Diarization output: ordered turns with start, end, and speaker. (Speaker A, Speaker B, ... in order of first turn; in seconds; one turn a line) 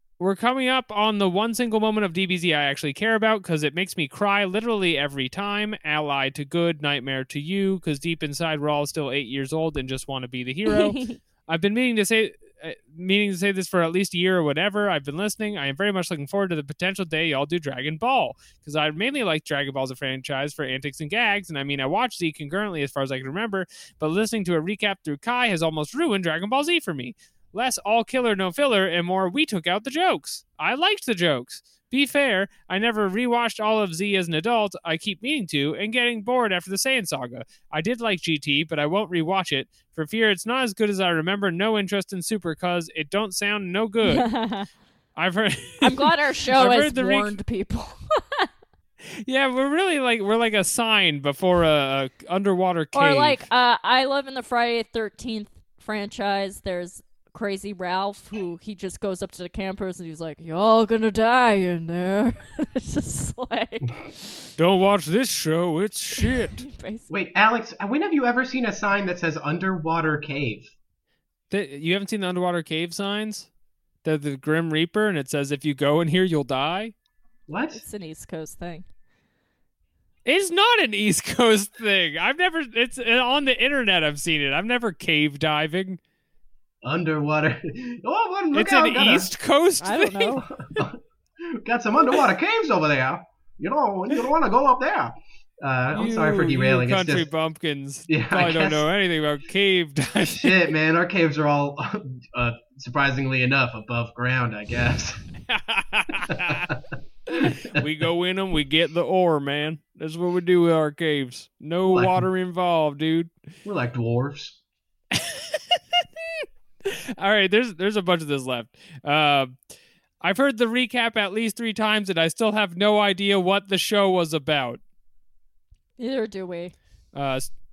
Speaker A: 0.2-44.3
Speaker B: 10.7-11.2
Speaker B: 44.0-44.7
Speaker A: 45.2-47.4
Speaker B: 45.8-48.5
Speaker A: 49.1-53.4
Speaker B: 52.9-64.3
Speaker A: 64.6-66.7
Speaker B: 66.2-67.1
Speaker C: 67.1-70.7
Speaker A: 71.5-73.5
Speaker A: 74.0-76.9
Speaker C: 77.5-77.8
Speaker B: 77.7-78.8
Speaker A: 80.3-86.0
Speaker C: 86.8-89.3
Speaker A: 88.5-90.5
Speaker B: 89.8-90.5
Speaker C: 90.5-97.3
Speaker A: 95.9-100.6
Speaker C: 98.1-98.9
Speaker C: 100.2-105.2
Speaker A: 105.5-106.7
Speaker C: 106.3-106.8
Speaker A: 107.3-113.3
Speaker C: 107.3-107.8
Speaker C: 111.9-112.2
Speaker C: 113.7-114.6
Speaker A: 115.1-119.5
Speaker A: 120.2-124.8
Speaker B: 126.0-126.7
Speaker A: 127.1-127.5